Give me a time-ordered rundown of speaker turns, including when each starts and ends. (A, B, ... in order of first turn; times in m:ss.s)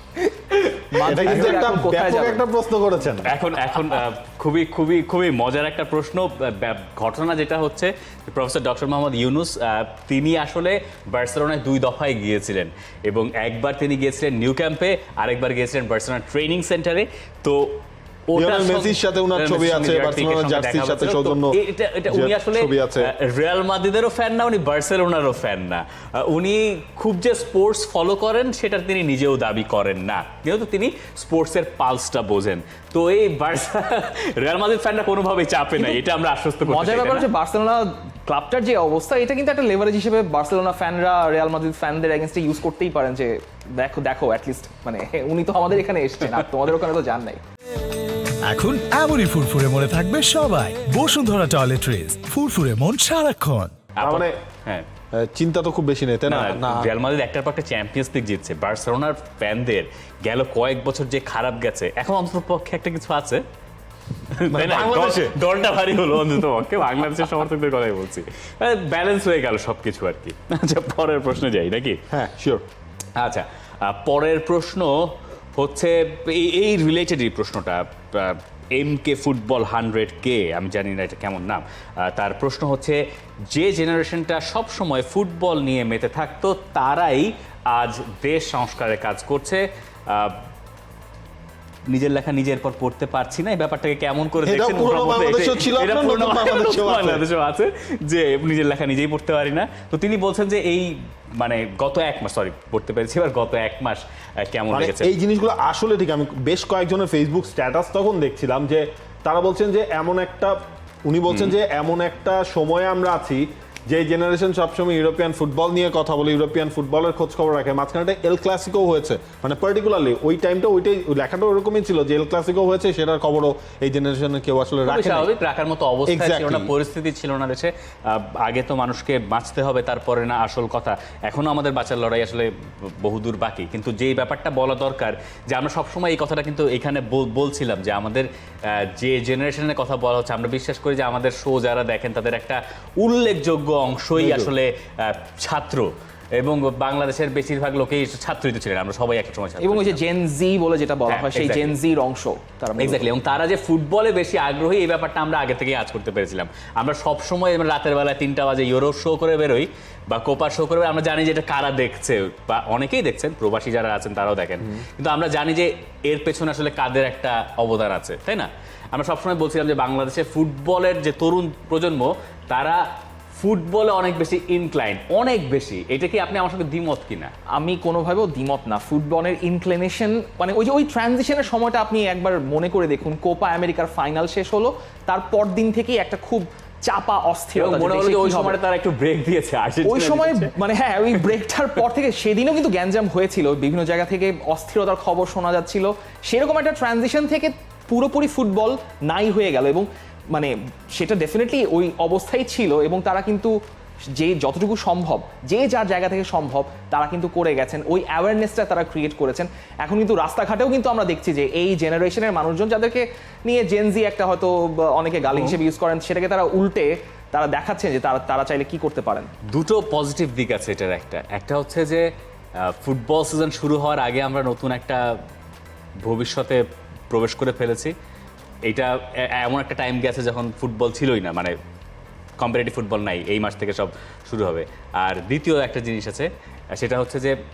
0:00.9-0:02.4 A
0:01.0-0:01.8 B
0:01.1-0:03.3 C
0:03.2-0:37.3 B
0:18.3-0:21.6 C
0:22.1-0:23.1 C
0:36.7-0:47.4 A
0:48.4-0:53.7 D
0:54.0-0:54.8 B
0:54.0-0:54.4 C
0:55.2-0:56.9 C
0:56.3-1:03.4 B
1:04.4-1:12.0 B
1:04.5-1:05.3 C
1:12.1-1:12.6 C
1:13.2-1:30.4 B
1:31.9-1:45.1 B
1:34.4-1:37.2 C
1:44.7-2:05.3 C
1:51.3-1:51.6 B
2:04.8-2:30.0 B
2:06.1-2:06.7 C
2:24.2-2:24.5 C
2:29.6-2:33.0 A
2:31.1-2:31.7 B
2:32.8-2:52.8 B
2:53.3-2:57.3 B
2:57.5-3:08.6 A
3:07.5-3:10.5 B
3:09.8-3:23.5 A
3:24.2-3:39.3 A
3:35.3-3:35.6 B
3:39.5-3:42.0 B
3:42.6-3:45.1 B
3:46.0-3:47.9 B
3:48.6-3:51.5 B
3:52.4-3:57.3 B